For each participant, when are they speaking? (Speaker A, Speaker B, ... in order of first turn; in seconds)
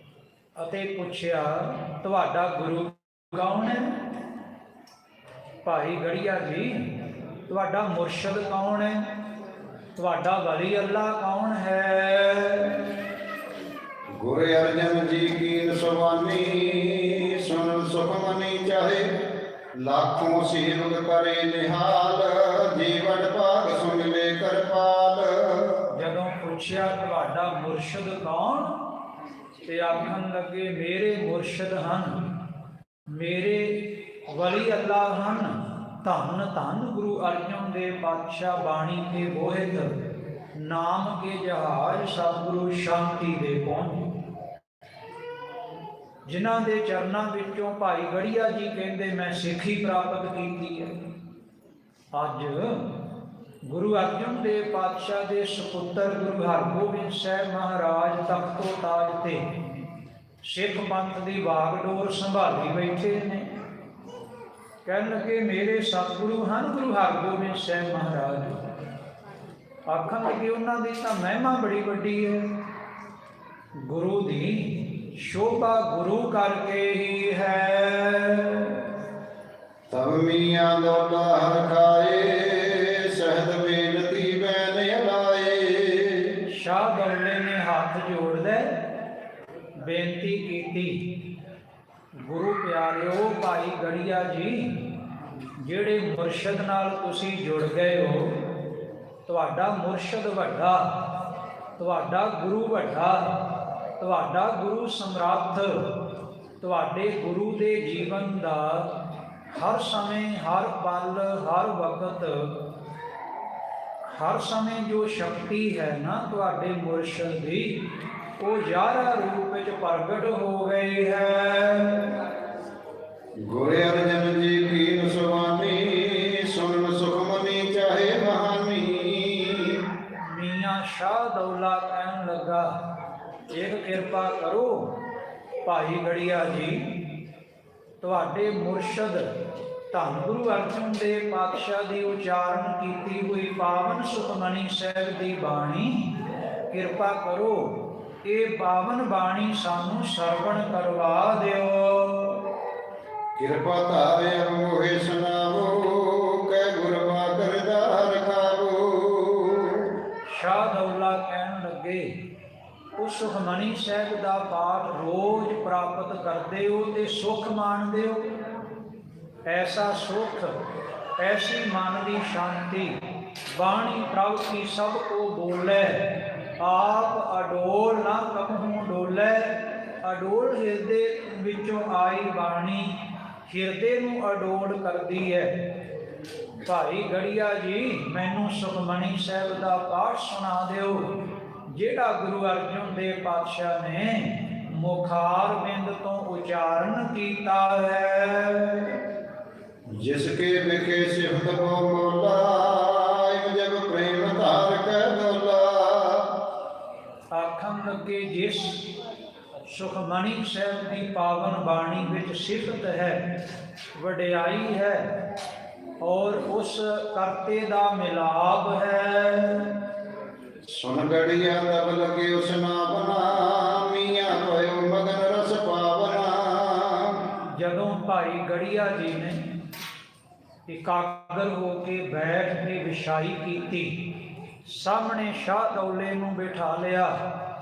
Speaker A: 0.6-4.0, 5.6-6.8, 7.5-9.1, 10.0-12.8, 25.9-28.7, 29.7-32.1, 33.1-40.0, 40.5-44.0, 46.2-50.9, 52.1-52.8, 53.6-59.5, 60.4-63.5, 64.8-68.6, 69.9-72.5, 73.8-78.8, 86.5-88.8, 89.8-91.0, 92.2-94.7, 95.6-98.4, 99.3-100.9, 101.8-103.3, 104.0-105.8, 106.6-108.9, 109.5-112.5, 114.1-117.8, 118.4-122.1, 130.2-132.7, 133.5-134.9, 135.7-136.8, 138.0-139.3, 139.9-146.0, 146.7-152.4, 160.3-162.1, 163.0-168.2, 169.5-170.5, 171.2-173.0, 173.5-176.1, 176.6-182.9, 183.5-185.5, 186.6-191.1, 191.7-199.0, 207.3-208.9, 209.6-213.2, 213.9-215.0, 216.0-219.8, 227.6-229.4, 230.7-233.9, 234.6-237.1
Speaker B: 14.2-19.1, 19.8-25.8, 79.9-86.3, 123.4-129.8, 153.3-159.9, 199.9-206.3, 220.7-227.2